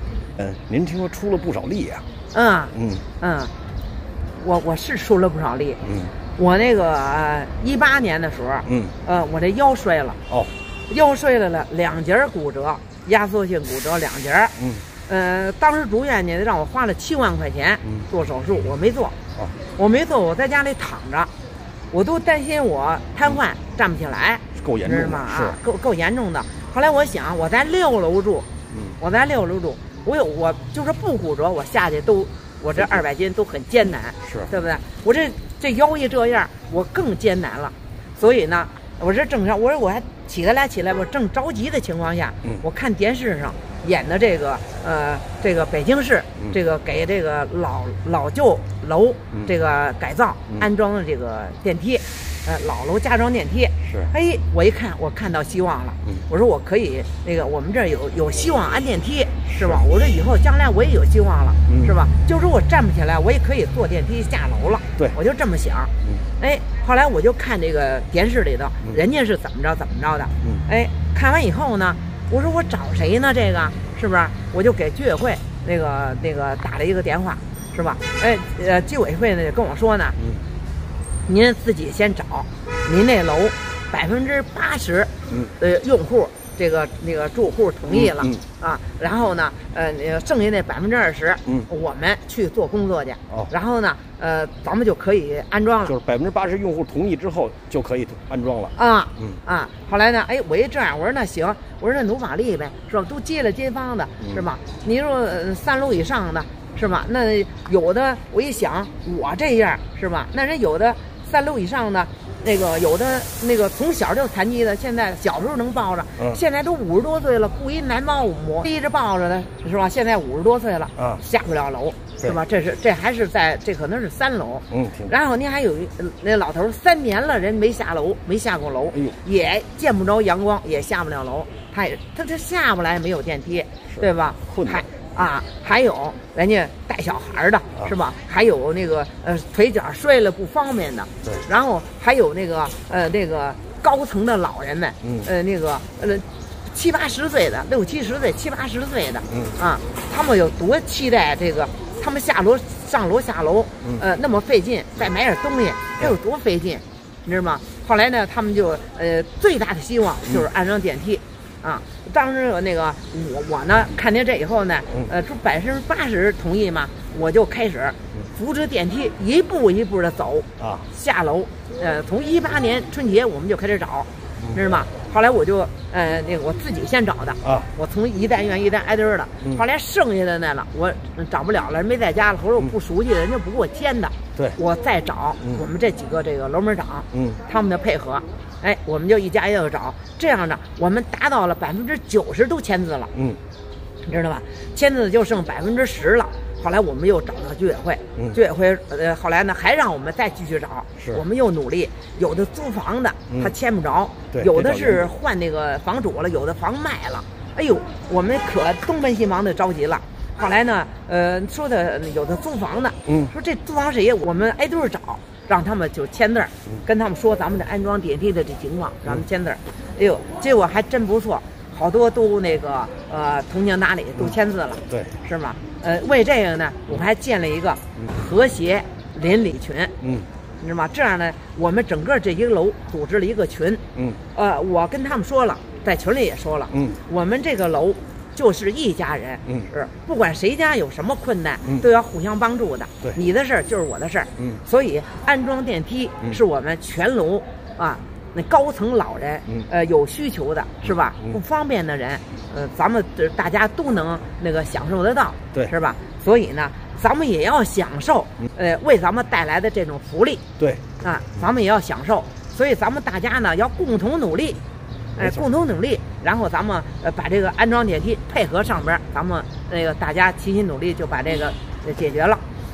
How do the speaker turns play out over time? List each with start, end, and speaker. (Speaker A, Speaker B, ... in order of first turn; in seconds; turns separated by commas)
Speaker A: 0.4-2.0, Speaker B: 2.3-3.5, Speaker A: 2.8-3.0, Speaker B: 4.4-5.8, Speaker A: 5.9-6.1, Speaker B: 6.4-10.2, Speaker A: 8.7-8.9, Speaker B: 10.9-14.6, Speaker B: 15.1-19.2, Speaker B: 19.8-21.3, Speaker B: 21.9-28.5, Speaker A: 24.6-25.6, Speaker B: 29.0-80.2, Speaker A: 59.5-59.8, Speaker B: 81.3-96.0, Speaker A: 88.0-88.4, Speaker A: 95.9-99.4, Speaker B: 98.8-193.1, Speaker A: 124.7-125.1, Speaker A: 134.5-134.9, Speaker A: 170.6-170.9, Speaker A: 177.4-177.7, Speaker B: 194.1-229.9, Speaker A: 204.3-205.1, Speaker A: 213.1-213.3, Speaker A: 224.9-225.2, Speaker A: 230.0-230.3, Speaker B: 230.6-233.8, Speaker B: 234.3-260.4, Speaker B: 261.0-264.6, Speaker B: 265.2-272.4